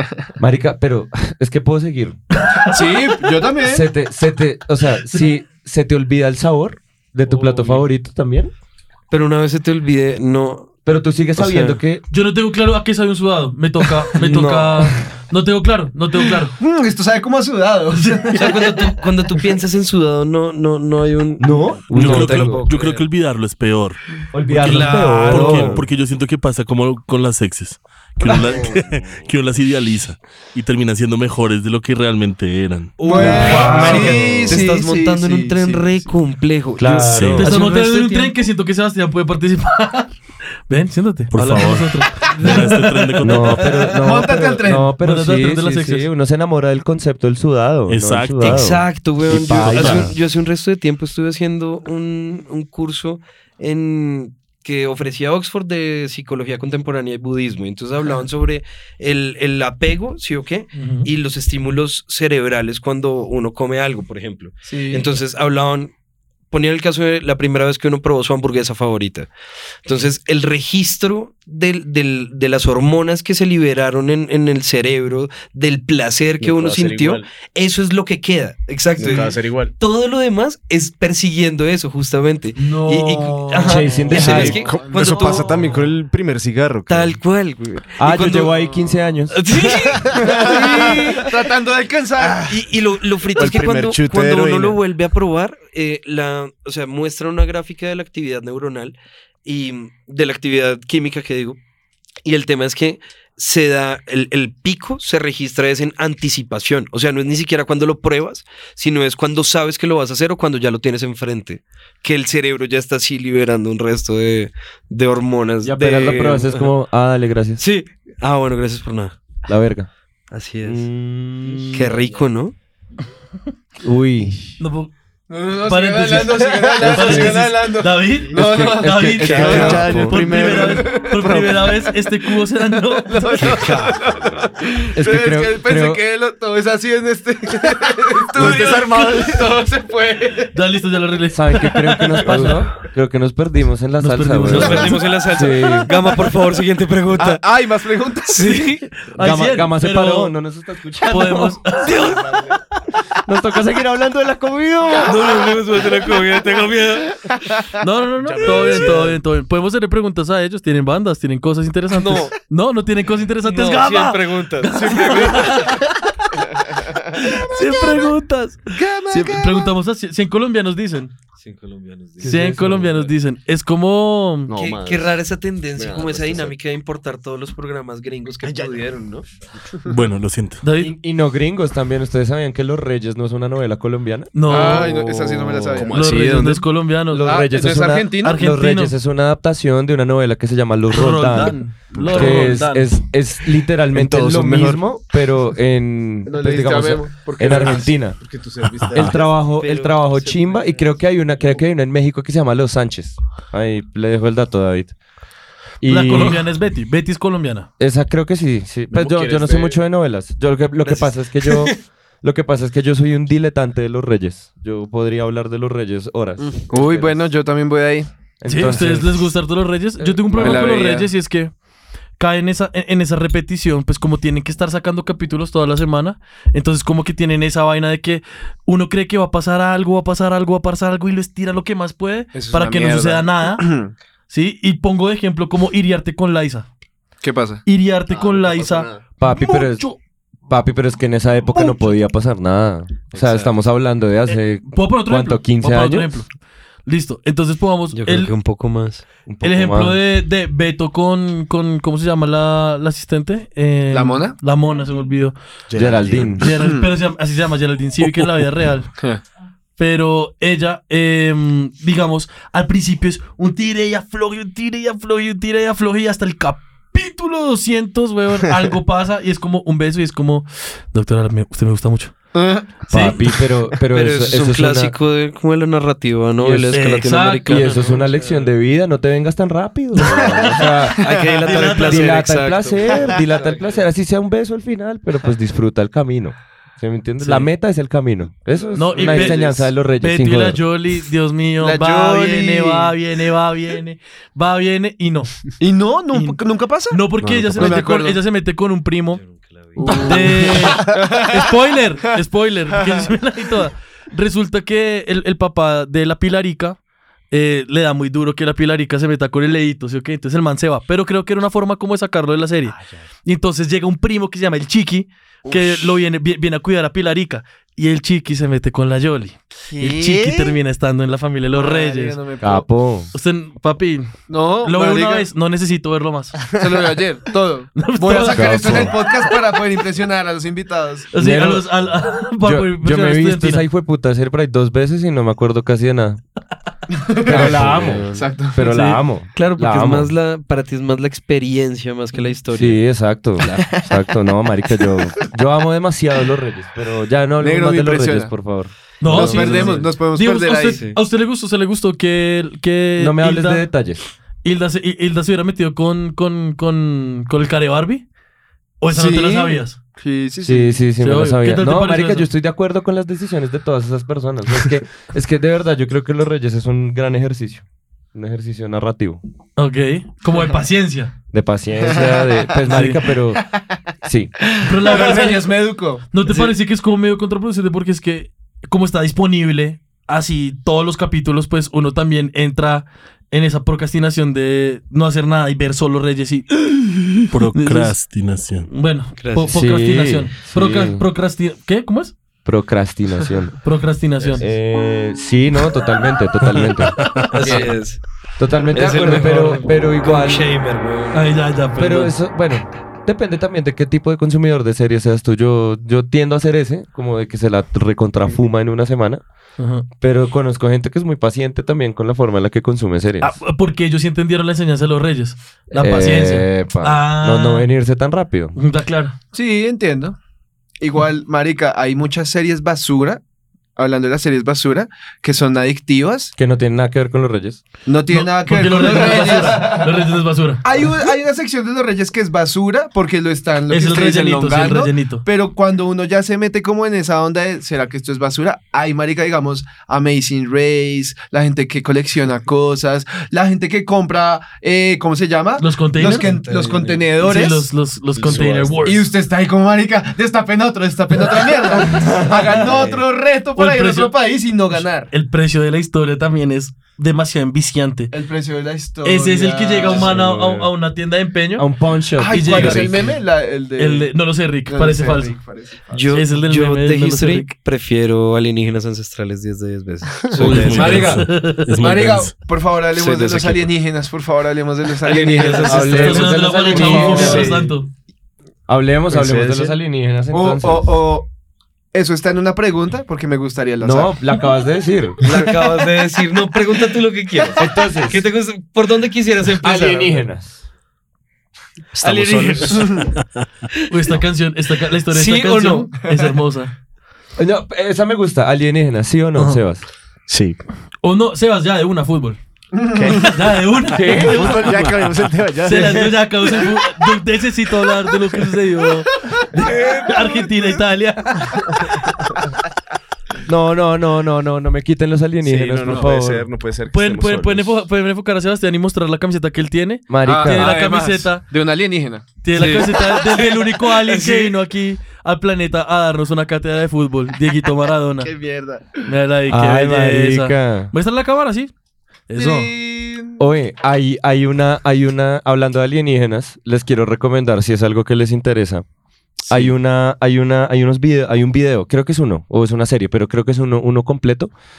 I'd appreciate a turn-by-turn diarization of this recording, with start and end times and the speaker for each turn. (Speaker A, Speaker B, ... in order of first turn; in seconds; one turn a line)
Speaker A: 0.4-2.2
Speaker B: 2.5-2.8
Speaker C: 2.7-3.9
Speaker A: 3.6-8.5
Speaker D: 7.3-7.8
Speaker D: 9.1-10.8
Speaker A: 10.8-12.0
Speaker D: 11.4-11.8
Speaker B: 12.1-16.6
Speaker A: 14.2-15.0
Speaker C: 16.6-18.9
Speaker D: 18.4-23.0
Speaker A: 21.4-22.7
Speaker E: 21.9-24.0
Speaker A: 24.3-25.8
Speaker E: 24.5-34.1
Speaker D: 24.6-25.8
Speaker D: 33.0-38.4
Speaker C: 33.0-36.1
Speaker A: 33.0-34.7
Speaker A: 36.8-37.5
Speaker E: 37.0-37.5
Speaker B: 37.4-40.1
Speaker B: 40.7-43.6
Speaker E: 41.3-43.9
Speaker A: 43.2-50.1
Speaker C: 43.9-44.9
Speaker B: 45.0-46.1
Speaker E: 47.9-48.9
Speaker D: 48.4-65.9
Speaker E: 49.4-50.1
Speaker B: 60.7-61.1
Speaker C: 64.7-65.1
Speaker D: 66.5-69.3
Speaker D: 69.8-85.8
Speaker F: 76.4-77.3
Speaker F: 79.0-79.7
Speaker C: 82.6-85.8
Speaker A: 83.6-84.7
Speaker F: 84.1-87.2
Speaker D: 86.9-88.6
Speaker A: 88.0-89.5
Speaker D: 89.3-91.3
Speaker F: 89.7-91.2
Speaker C: 90.2-92.5
Speaker F: 92.2-92.7
Speaker D: 92.5-101.6
Speaker F: 93.2-94.8
Speaker D: 102.2-116.7
Speaker A: 115.6-117.6
Speaker D: 117.6-119.2
Speaker A: 119.5-119.9
Speaker D: 120.3-120.9
Speaker A: 120.6-121.7
Speaker D: 121.5-122.5
Speaker A: 123.8-124.5
Speaker B: 124.6-124.9
Speaker C: 125.3-130.0
Speaker B: 125.6-133.5
Speaker A: 126.8-127.6
Speaker A: 128.3-130.2
Speaker D: 129.2-130.8
Speaker F: 129.3-131.7
Speaker C: 130.5-131.1
Speaker C: 132.9-140.5
Speaker D: 133.4-134.0
Speaker A: 134.9-136.0
Speaker B: 138.4-139.3
Speaker F: 138.4-139.5
Speaker B: 140.5-142.7
Speaker A: 141.3-145.9
Speaker B: 144.0-145.1
Speaker D: 144.5-147.4
Speaker C: 147.2-148.7
Speaker D: 148.3-148.9
Speaker B: 149.1-150.3
Speaker A: 149.2-151.6
Speaker B: 151.1-152.0
Speaker D: 151.8-152.5
Speaker A: 153.2-155.4
Speaker D: 155.0-157.3
Speaker B: 157.8-166.4
Speaker F: 158.2-159.2
Speaker D: 158.4-159.1
Speaker D: 161.9-162.3
Speaker D: 163.4-165.7
Speaker F: 164.7-165.6
Speaker B: 167.1-171.1
Speaker D: 168.9-169.2
Speaker D: 171.4-173.1
Speaker B: 172.2-174.5
Speaker A: 172.3-172.6
Speaker F: 174.5-175.2
Speaker D: 174.5-179.3
Speaker F: 175.8-176.5
Speaker F: 178.4-179.0
Speaker E: 179.9-180.6
Speaker B: 180.6-180.9
Speaker A: 180.8-184.3
Speaker B: 184.3-184.9
Speaker C: 184.5-185.9
Speaker F: 184.6-186.7
Speaker B: 185.9-187.2
Speaker A: 187.1-198.2
Speaker C: 187.2-188.4
Speaker B: 188.2-188.9
Speaker B: 190.9-193.0
Speaker F: 191.9-192.6
Speaker F: 193.9-194.8
Speaker C: 196.2-197.9
Speaker F: 197.3-199.2
Speaker A: 198.9-204.9
Speaker D: 199.0-200.9
Speaker A: 205.8-206.4
Speaker B: 205.9-207.7
Speaker A: 207.8-217.3
Speaker F: 208.9-209.8
Speaker D: 210.8-211.8
Speaker C: 216.7-218.1
Speaker A: 218.4-219.3
Speaker B: 218.5-221.6
Speaker A: 220.0-220.7
Speaker C: 220.4-221.1
Speaker B: 222.2-233.7
Speaker C: 232.3-233.9
Speaker B: 234.3-236.7
Speaker C: 237.2-237.7
Speaker B: 237.7-240.0
Speaker F: 238.1-238.9
Speaker A: 239.2-239.9
Speaker A: 240.5-246.1
Speaker B: 241.5-241.9
Speaker D: 243.1-243.5
Speaker B: 244.7-246.3
Speaker B: 246.9-248.3
Speaker D: 247.9-249.1
Speaker A: 249.3-250.0
Speaker B: 249.4-255.4
Speaker C: 253.9-254.4
Speaker F: 255.7-256.4
Speaker A: 255.8-256.4
Speaker B: 256.4-258.9
Speaker C: 256.4-256.9
Speaker C: 259.0-259.2
Speaker B: 259.8-272.1
Speaker C: 272.3-272.8
Speaker B: 272.9-273.3
Speaker A: 272.9-274.9
Speaker D: 273.9-278.5
Speaker A: 276.4-276.9
Speaker B: 276.7-278.0
Speaker A: 277.4-290.7
Speaker B: 280.0-280.4
Speaker D: 280.1-283.8
Speaker C: 281.0-281.2
Speaker B: 281.4-282.2
Speaker B: 287.2-287.5
Speaker B: 288.7-295.5
Speaker D: 289.0-289.5
Speaker C: 291.6-292.9
Speaker C: 295.6-297.0
Speaker B: 296.1-299.2
Speaker A: 297.2-297.8
Speaker C: 297.6-298.2
Speaker D: 299.1-300.3
Speaker B: 299.8-306.8
Speaker C: 299.9-301.4
Speaker B: 307.3-322.2
Speaker C: 315.5-315.9
Speaker C: 319.7-320.6
Speaker C: 321.6-322.7
Speaker A: 322.4-323.1
Speaker B: 323.1-324.1
Speaker C: 324.3-325.3
Speaker B: 324.6-326.4
Speaker C: 326.5-331.1
Speaker B: 327.8-329.1
Speaker A: 328.3-328.9
Speaker B: 331.1-333.7
Speaker A: 331.2-331.7
Speaker A: 332.4-336.2
Speaker C: 336.9-338.7
Speaker A: 337.2-340.1
Speaker D: 337.3-338.3
Speaker B: 338.6-339.0
Speaker D: 339.3-343.8
Speaker A: 342.5-349.8
Speaker C: 347.4-348.4
Speaker B: 349.0-353.7
Speaker C: 349.0-350.8
Speaker D: 349.2-349.9
Speaker D: 350.7-351.0
Speaker A: 353.0-354.0
Speaker B: 354.4-358.1
Speaker B: 358.8-359.8
Speaker C: 358.9-360.8
Speaker A: 360.4-369.2
Speaker B: 361.0-362.3
Speaker B: 369.6-371.1
Speaker A: 371.3-374.5
Speaker C: 371.9-372.4
Speaker B: 372.7-373.0
Speaker C: 374.5-376.1
Speaker B: 374.6-375.5
Speaker B: 376.1-388.0
Speaker D: 376.3-376.5
Speaker E: 387.3-388.7
Speaker B: 388.7-392.1
Speaker D: 389.2-389.5
Speaker A: 389.4-391.1
Speaker A: 392.4-393.6
Speaker B: 393.6-394.4
Speaker A: 394.4-397.7
Speaker E: 397.0-397.3
Speaker B: 397.3-397.6
Speaker D: 397.3-398.0
Speaker A: 398.4-400.5
Speaker D: 398.7-401.3
Speaker B: 401.1-402.1
Speaker A: 401.8-409.2
Speaker B: 409.6-409.9
Speaker A: 410.0-413.4
Speaker B: 413.2-417.7
Speaker A: 415.7-418.6
Speaker B: 418.6-419.1
Speaker C: 419.3-420.2
Speaker C: 420.8-423.2
Speaker C: 423.8-426.3
Speaker A: 426.4-427.6
Speaker C: 427.9-430.0
Speaker B: 428.1-430.6
Speaker C: 430.6-447.7
Speaker B: 433.7-435.2
Speaker B: 445.6-446.3
Speaker D: 446.0-447.1
Speaker B: 447.2-449.1
Speaker F: 448.2-448.9
Speaker D: 448.2-448.6
Speaker C: 448.8-455.1
Speaker A: 451.9-452.6
Speaker D: 452.5-453.0
Speaker B: 453.6-454.1
Speaker B: 454.7-458.1
Speaker C: 458.1-460.2
Speaker B: 459.0-461.7
Speaker A: 461.6-463.1
Speaker C: 462.2-464.1
Speaker B: 462.3-463.2
Speaker B: 463.8-465.3
Speaker C: 464.7-466.2
Speaker D: 465.9-471.1
Speaker B: 466.1-467.5
Speaker E: 470.4-472.3
Speaker A: 470.4-471.2
Speaker F: 470.5-470.8
Speaker B: 470.5-471.7
Speaker C: 470.7-477.5
Speaker D: 472.9-473.7
Speaker D: 475.0-477.6
Speaker A: 475.6-477.6
Speaker B: 476.0-477.9
Speaker A: 478.7-480.9
Speaker F: 479.1-479.7
Speaker C: 480.3-481.3
Speaker C: 481.9-484.2
Speaker A: 483.8-485.9
Speaker D: 485.2-490.2
Speaker A: 487.6-488.2
Speaker A: 489.6-490.6
Speaker D: 491.9-493.1
Speaker F: 492.0-492.7
Speaker C: 492.6-493.1
Speaker B: 493.9-496.7
Speaker D: 495.1-495.9
Speaker A: 497.4-499.9
Speaker B: 499.4-499.6
Speaker F: 500.3-500.6
Speaker B: 501.0-502.4
Speaker C: 502.7-503.3
Speaker F: 502.9-503.5
Speaker B: 503.2-505.0
Speaker A: 503.9-504.7
Speaker F: 504.1-506.5
Speaker B: 505.6-512.0
Speaker A: 513.5-516.5
Speaker F: 515.4-517.8
Speaker B: 516.9-521.4
Speaker A: 520.1-520.8
Speaker C: 520.2-522.4
Speaker B: 522.4-528.3
Speaker D: 522.5-524.5
Speaker C: 528.2-529.1
Speaker B: 529.1-531.7
Speaker A: 529.5-530.9
Speaker B: 532.3-532.7
Speaker C: 532.4-533.4
Speaker A: 533.4-538.9
Speaker A: 539.5-544.5